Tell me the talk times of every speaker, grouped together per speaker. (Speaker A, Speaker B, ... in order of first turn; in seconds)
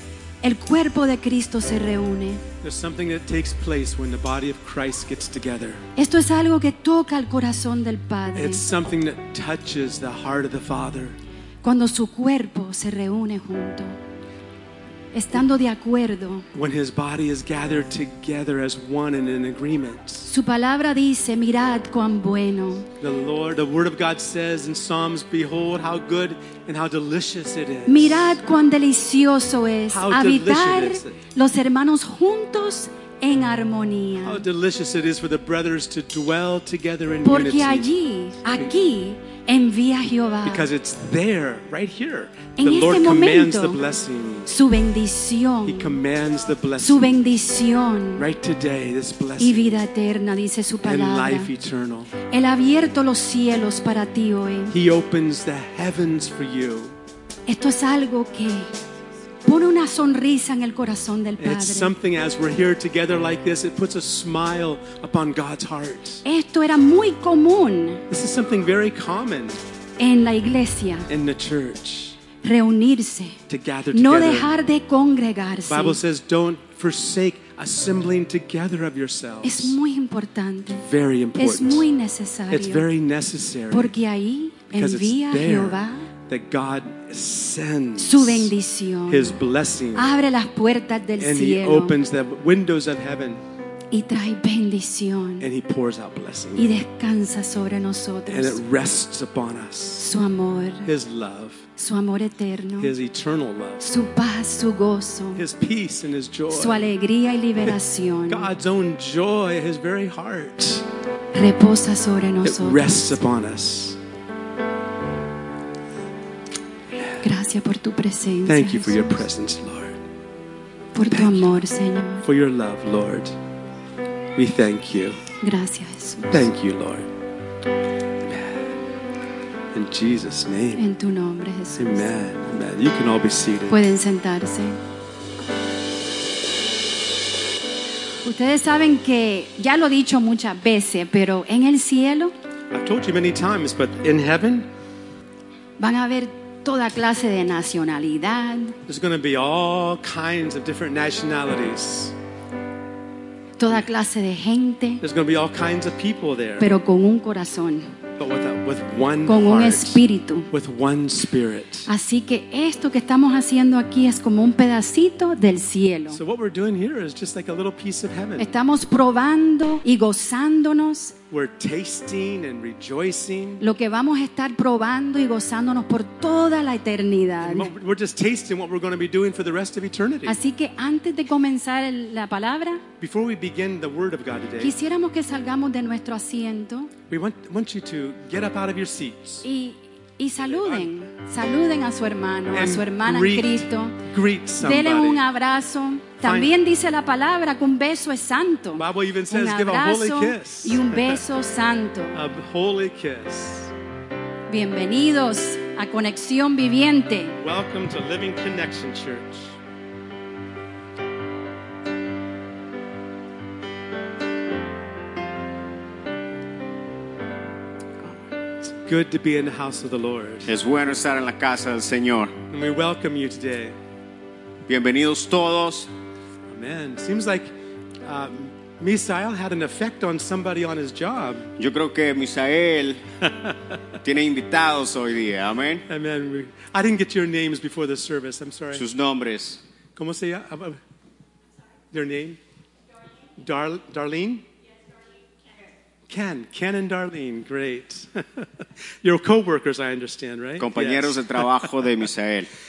Speaker A: 0.4-2.4, 6.0-8.6, 11.6-13.9, 15.1-16.4, 20.2-22.9, 27.9-34.4, 37.2-40.6, 42.6-43.8, 44.5-46.0, 46.8-48.3, 49.4-51.5, 52.3-54.7, 57.5-58.7, 59.4-61.9, 66.2-68.0, 70.0-71.1, 72.4-73.4, 73.9-76.0, 79.4-80.8, 81.4-82.9, 83.7-86.1, 88.0-89.4, 89.9-92.0, 93.9-95.5, 96.5-98.6, 100.0-100.9, 101.8-102.9, 103.8-105.4, 106.5-108.5, 111.3-112.9, 117.2-119.2, 120.9-122.2, 125.4-126.5, 130.8-132.1, 133.7-134.8, 138.2-142.3, 145.8-148.8, 153.6-155.0, 156.6-157.9, 159.2-160.5, 161.9-166.2, 168.4-171.1, 173.6-177.7, 180.2-182.8, 184.6-186.9, 189.4-194.0, 194.6-202.2, 204.5-207.4
Speaker B: 2.6-5.8, 8.3-11.2, 16.5-20.2, 23.0-28.4, 29.9-31.2, 34.2-37.9, 40.4-44.5, 45.7-47.1, 48.2-49.8, 50.8-52.1, 54.7-56.9, 61.4-66.2, 68.1-69.6, 71.1-72.2, 73.5-74.5, 75.7-79.8, 80.8-81.8, 82.5-83.9, 84.7-88.5, 89.1-90.1, 91.2-93.4, 95.4-96.7, 98.3-100.1, 100.8-101.7, 102.8-103.8, 105.3-106.8, 108.3-110.8, 112.4-114.0, 118.5-120.0, 121.1-121.5, 122.2-123.3, 124.3-125.2, 126.3-127.1, 128.2-128.7, 129.7-130.8, 131.8-133.8, 142.7-144.7, 148.9-152.1, 155.0-156.7, 158.2-160.0, 160.5-161.9, 166.1-168.5, 171.3-173.6, 177.4-180.3, 183.0-184.8, 187.1-189.4, 192.5-195.2, 196.2-196.5, 198.8-201.2, 202.1-203.7, 207.4-209.6, 218.8-220.5, 222.5-223.8, 226.5-227.5, 228.0-231.5, 233.2-233.6, 235.9-238.8, 239.9-240.8, 241.9-242.4, 243.4-244.4, 246.1-251.7
Speaker C: 218.0-218.3, 220.5-222.3, 224.7-225.9, 231.6-233.0, 234.0-235.8, 238.7-239.6, 250.6-252.5